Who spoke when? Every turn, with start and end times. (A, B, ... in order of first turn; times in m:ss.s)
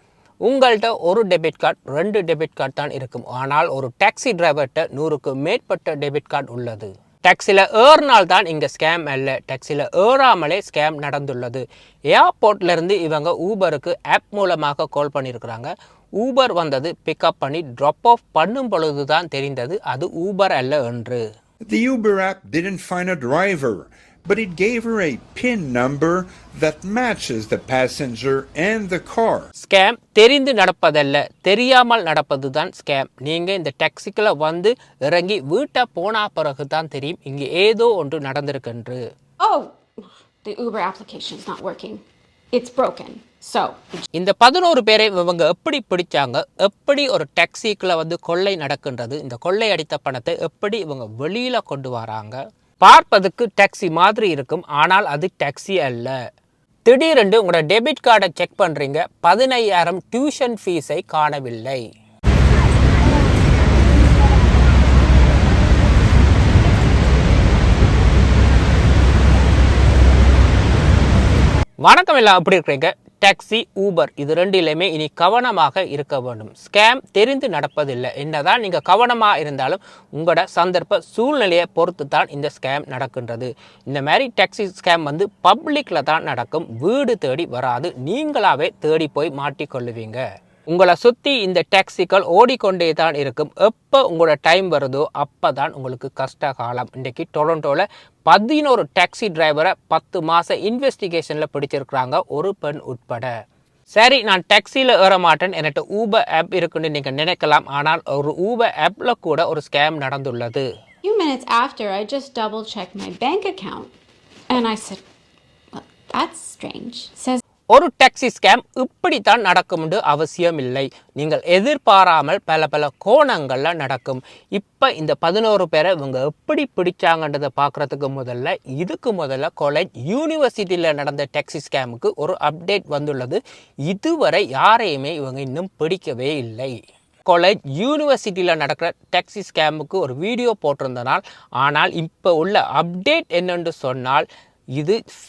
0:00.4-0:21.2 A
0:21.7-0:29.5 B
0:29.6-0:39.0 A
0:39.4-0:39.7 C
0:40.4-0:42.0 C
0:42.5-0:44.0 C
0:44.1-0:56.1 A
0:56.8-1:01.8 A
1:11.8-1:43.3 A
1:44.0-1:50.7 A
1:51.0-1:53.9 C
1:54.5-1:55.0 C
1:55.7-1:57.4 C
1:57.7-2:25.0 A